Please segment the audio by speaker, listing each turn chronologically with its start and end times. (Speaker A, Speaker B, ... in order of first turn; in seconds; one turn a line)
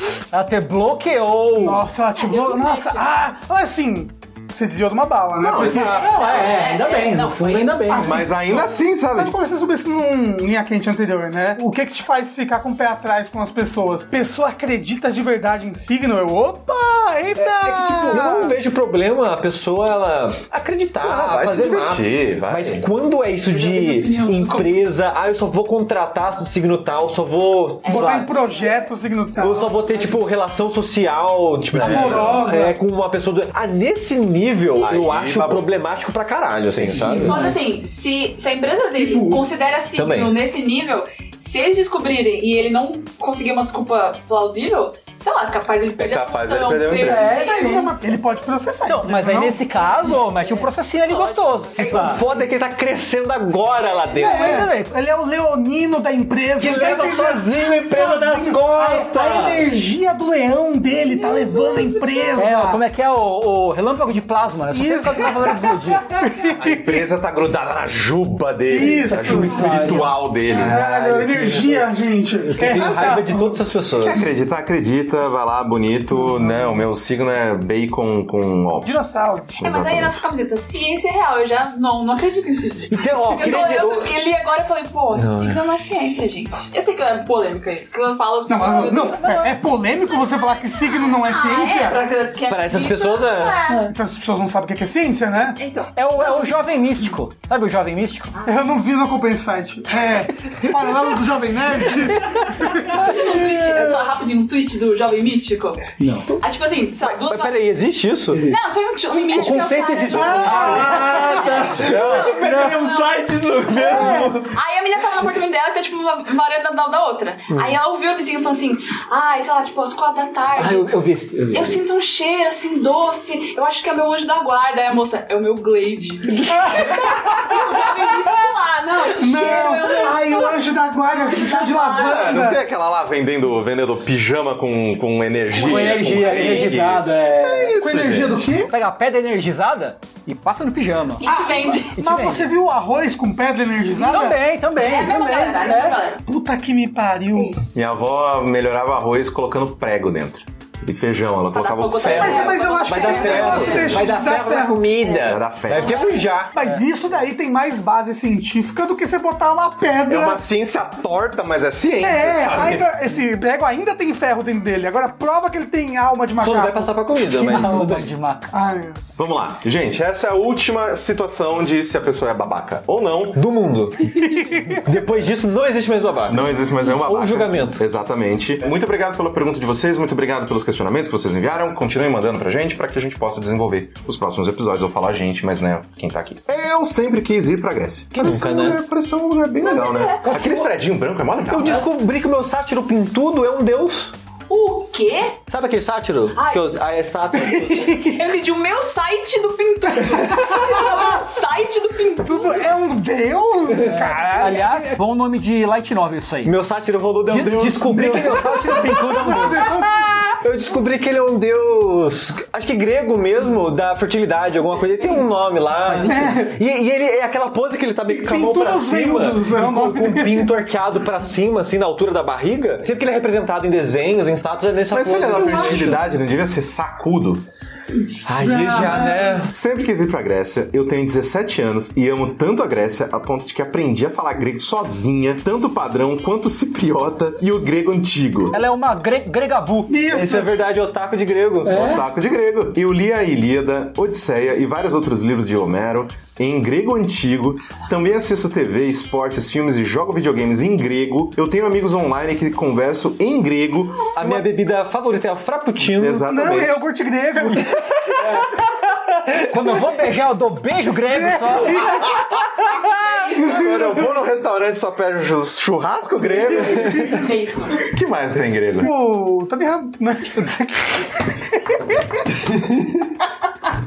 Speaker A: 0.3-1.9
Speaker B: 1.6-5.9
Speaker C: 2.1-3.1
Speaker D: 5.4-6.5
Speaker A: 5.5-8.2
Speaker C: 5.8-8.0
Speaker B: 7.9-18.6
Speaker D: 8.0-9.3
Speaker E: 17.4-28.3
Speaker A: 17.9-18.3
Speaker D: 21.0-22.8
Speaker C: 23.4-24.8
Speaker C: 27.8-28.9
Speaker B: 27.9-29.8
Speaker E: 29.4-37.5
Speaker D: 31.7-32.5
Speaker B: 31.8-32.8
Speaker D: 34.8-35.6
Speaker D: 36.7-37.4
Speaker C: 37.2-47.8
Speaker A: 37.3-37.5
Speaker B: 39.0-39.4
Speaker E: 39.9-40.4
Speaker D: 46.0-47.3
Speaker A: 47.0-47.9
Speaker B: 47.3-49.6
Speaker A: 48.8-52.2
Speaker E: 51.8-54.7
Speaker B: 54.1-62.8
Speaker A: 54.2-54.9
Speaker E: 56.6-59.5
Speaker A: 56.6-59.8
Speaker A: 62.4-66.3
Speaker B: 64.7-67.0
Speaker D: 66.6-70.8
Speaker B: 68.7-73.6
Speaker A: 69.1-71.7
Speaker E: 70.5-71.8
Speaker E: 72.4-74.2
Speaker D: 72.6-73.3
Speaker D: 73.9-79.0
Speaker B: 78.8-79.5
Speaker D: 79.5-80.2
Speaker C: 79.6-89.2
Speaker E: 82.9-84.1
Speaker E: 85.1-85.6
Speaker B: 88.5-92.0
Speaker A: 89.2-89.6
Speaker C: 90.8-93.9
Speaker E: 92.5-93.7
Speaker B: 93.8-95.6
Speaker C: 95.6-96.4
Speaker A: 95.9-98.4
Speaker B: 98.4-103.1
Speaker C: 102.8-105.8
Speaker A: 106.0-106.3
Speaker C: 106.4-107.5
Speaker E: 107.2-108.6
Speaker A: 108.3-108.6
Speaker C: 108.4-113.1
Speaker A: 109.3-113.0
Speaker E: 109.3-114.5
Speaker B: 110.1-111.4
Speaker B: 113.8-114.3
Speaker C: 113.8-121.0
Speaker A: 113.9-114.3
Speaker E: 117.5-117.8
Speaker A: 120.5-121.8
Speaker C: 121.5-132.3
Speaker B: 126.5-127.6
Speaker B: 129.1-132.6
Speaker D: 132.0-138.5
Speaker A: 135.5-137.8
Speaker E: 136.0-137.0
Speaker B: 137.7-138.7
Speaker A: 138.6-141.3
Speaker C: 141.2-141.9
Speaker B: 141.3-144.4
Speaker A: 141.9-142.5
Speaker A: 143.9-146.0
Speaker C: 144.1-146.2
Speaker B: 145.7-147.6
Speaker C: 147.3-147.7
Speaker D: 147.7-154.1
Speaker C: 151.5-154.2
Speaker B: 152.1-154.9
Speaker E: 152.1-156.6
Speaker C: 155.0-156.2
Speaker D: 155.2-156.1
Speaker B: 156.5-160.4
Speaker D: 160.1-162.9
Speaker B: 162.0-166.9
Speaker E: 166.4-168.1
Speaker A: 167.2-168.5
Speaker B: 168.5-169.0
Speaker D: 169.2-173.5
Speaker E: 173.3-177.8
Speaker B: 174.2-174.8
Speaker D: 176.3-191.9
Speaker E: 188.1-188.8
Speaker C: 189.6-190.5
Speaker A: 190.2-190.7
Speaker E: 191.5-194.1
Speaker C: 194.5-195.4
Speaker E: 195.5-198.1
Speaker C: 196.3-196.8
Speaker C: 197.5-202.7
Speaker B: 197.6-198.2
Speaker B: 200.1-201.2
Speaker B: 202.2-205.0
Speaker A: 203.8-206.5
Speaker E: 206.4-226.0
Speaker A: 207.3-209.8
Speaker B: 208.1-210.2
Speaker C: 215.0-215.3
Speaker A: 215.8-216.2
Speaker B: 216.0-216.6
Speaker B: 218.1-220.5
Speaker D: 224.9-227.4
Speaker B: 225.3-225.8
Speaker E: 228.2-229.5
Speaker B: 228.4-229.4
Speaker D: 229.5-238.6
Speaker A: 238.5-240.0
Speaker B: 239.9-240.6
Speaker E: 240.1-242.0
Speaker A: 241.6-242.0
Speaker D: 241.7-254.5
Speaker E: 254.1-256.2
Speaker D: 255.8-256.8
Speaker B: 256.2-258.0
Speaker A: 259.4-262.0
Speaker B: 261.1-262.2
Speaker C: 262.7-263.8
Speaker D: 263.4-267.3
Speaker B: 266.3-267.4
Speaker C: 267.2-267.9
Speaker D: 267.8-268.9
Speaker B: 268.8-272.2